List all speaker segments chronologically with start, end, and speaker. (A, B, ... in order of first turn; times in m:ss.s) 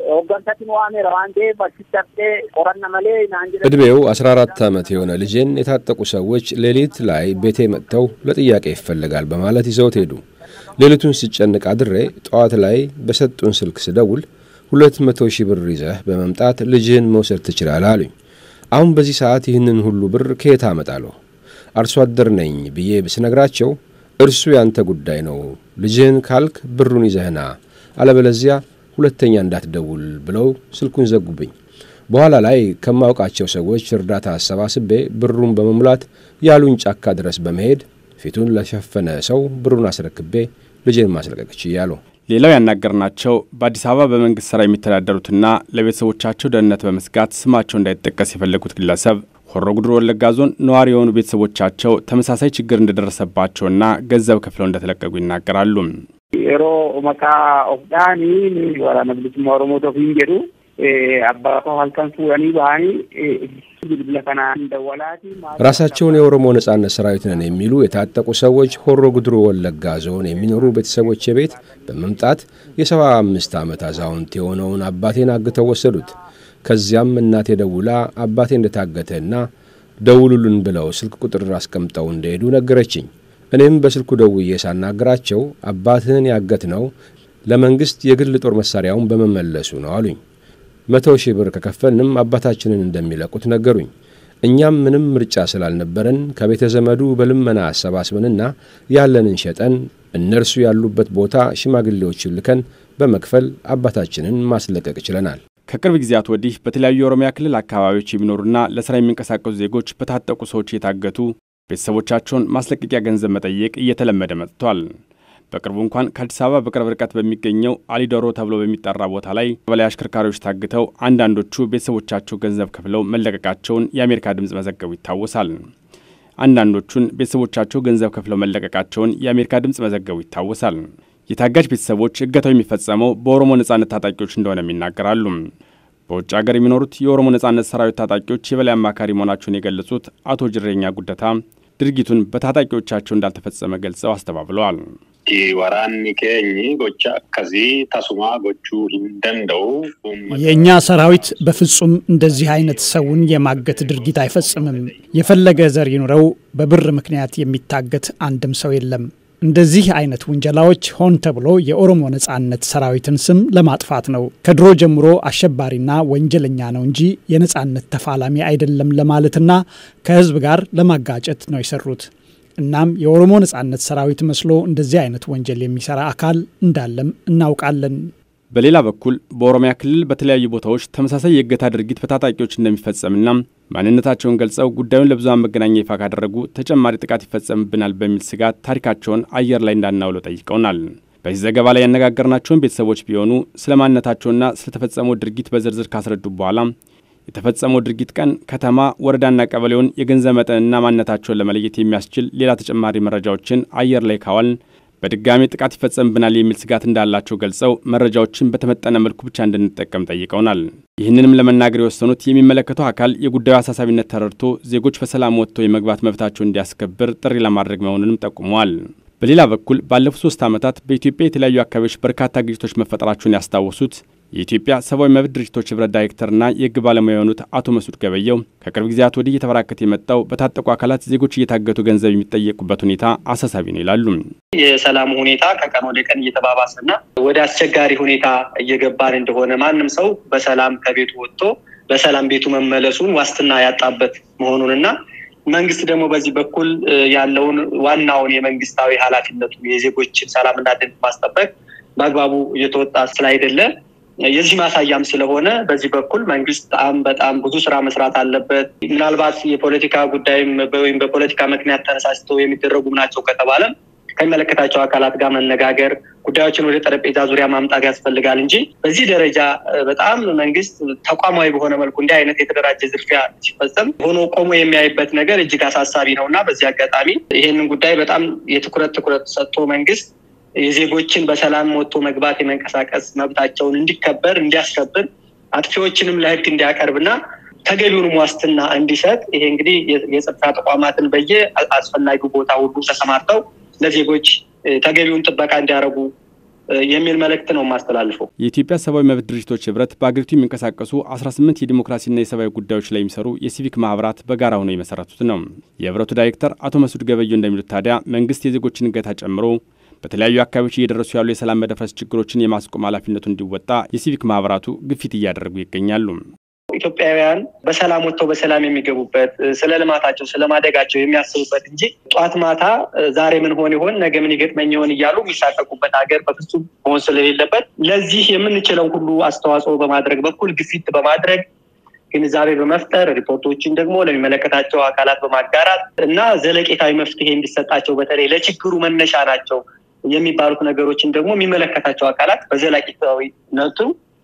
0:00.2-0:05.4 A
0:03.6-0:10.2 B
0:06.8-0:08.6 A
0:10.7-0:18.1 B
0:18.7-0:21.2 B
0:21.8-0:31.5 B
0:32.1-0:42.0 B
0:42.3-0:56.0 C
0:56.4-1:09.2 A
1:05.6-1:19.5 B
1:09.8-1:12.3 A
1:13.2-1:14.1 A
1:15.0-1:15.6 A
1:20.0-1:26.9 B
1:27.5-1:30.2 B
1:30.9-1:33.9 B
1:34.4-1:45.4 B
1:45.7-1:55.0 C
1:55.5-2:05.7 C
2:06.4-2:15.5 C
2:16.1-2:24.9 C
2:25.3-2:35.6 D
2:30.3-2:58.1 E
2:58.5-3:16.7 C
3:17.3-3:54.3 C
3:54.6-4:04.9 F
4:05.5-4:13.7 F
4:14.3-4:40.1 F
4:40.6-4:47.1 F
4:47.7-4:56.1 F
4:56.8-4:58.3 F
4:58.4-5:16.3 C
5:16.8-5:31.4 F
5:32.1-5:43.9 F